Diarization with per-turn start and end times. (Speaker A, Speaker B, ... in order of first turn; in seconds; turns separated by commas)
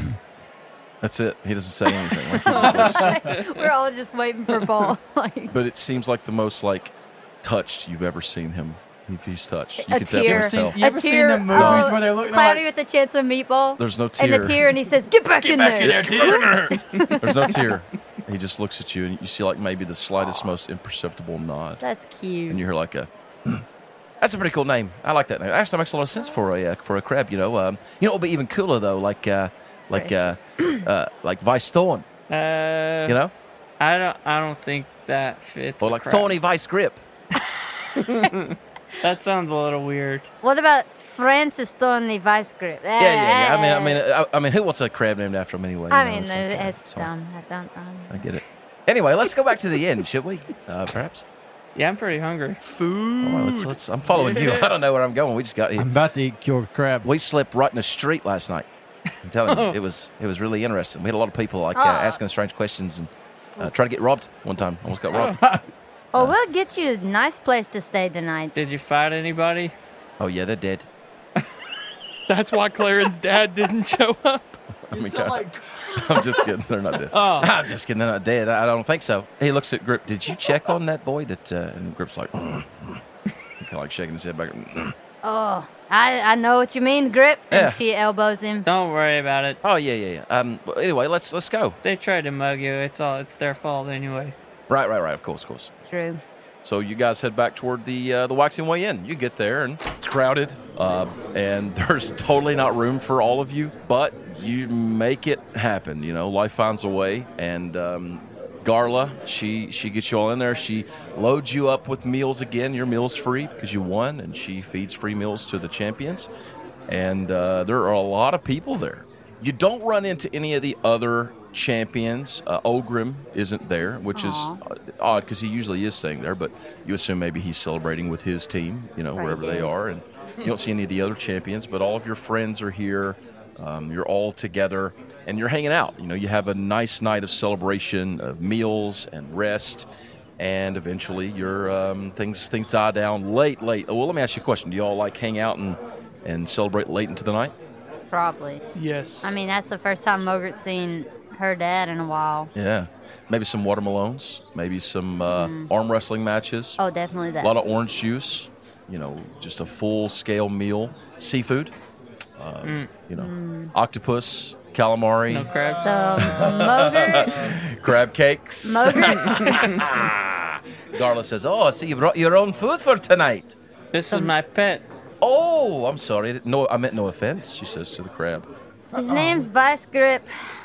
Speaker A: 1.0-3.2, Speaker B: 2.3-5.6, Speaker C: 2.5-3.7, Speaker D: 3.0-3.3, Speaker A: 5.5-10.8, Speaker B: 9.8-17.6, Speaker D: 10.2-12.6, Speaker A: 11.5-11.9, Speaker A: 13.8-14.7, Speaker A: 15.5-21.8, Speaker D: 15.5-17.1, Speaker B: 21.8-22.6, Speaker A: 22.5-23.6, Speaker A: 24.2-32.0, Speaker B: 29.9-30.9, Speaker C: 32.3-33.2, Speaker A: 33.1-33.3, Speaker C: 33.8-36.4, Speaker A: 35.8-37.0, Speaker B: 37.9-38.3, Speaker C: 38.0-40.3, Speaker B: 40.4-44.0, Speaker A: 43.0-47.1, Speaker B: 45.9-48.2, Speaker A: 48.1-51.2, Speaker C: 51.8-52.6, Speaker E: 52.6-54.7, Speaker A: 53.2-55.9, Speaker D: 55.8-57.1, Speaker A: 57.0-58.7, Speaker A: 59.2-65.4, Speaker C: 59.5-59.8, Speaker B: 61.7-62.2, Speaker D: 65.1-65.6, Speaker B: 66.1-68.5, Speaker C: 68.5-69.7, Speaker A: 70.2-70.9, Speaker E: 72.3-74.6, Speaker A: 74.9-83.0, Speaker D: 74.9-76.5, Speaker C: 77.1-77.5, Speaker A: 83.6-84.9, Speaker B: 85.2-88.7, Speaker A: 87.5-87.8, Speaker C: 88.7-89.6, Speaker A: 89.6-91.8, Speaker C: 91.8-94.3, Speaker A: 94.7-95.7, Speaker B: 95.8-96.2, Speaker A: 96.6-116.3, Speaker A: 116.9-139.9, Speaker B: 124.1-124.6, Speaker B: 129.2-129.7, Speaker A: 140.4-147.5, Speaker B: 148.1-148.6, Speaker E: 148.8-149.4, Speaker B: 149.2-152.5, Speaker A: 152.5-156.8, Speaker B: 155.3-155.7, Speaker B: 156.8-157.5, Speaker A: 157.4-161.7, Speaker A: 162.4-165.6, Speaker C: 162.6-162.9, Speaker B: 163.1-163.7, Speaker C: 165.3-167.1, Speaker B: 165.8-167.3, Speaker A: 166.2-173.6, Speaker B: 168.6-169.7, Speaker C: 169.2-169.8, Speaker C: 173.9-174.8, Speaker A: 175.2-178.5, Speaker D: 178.9-179.5, Speaker B: 178.9-180.3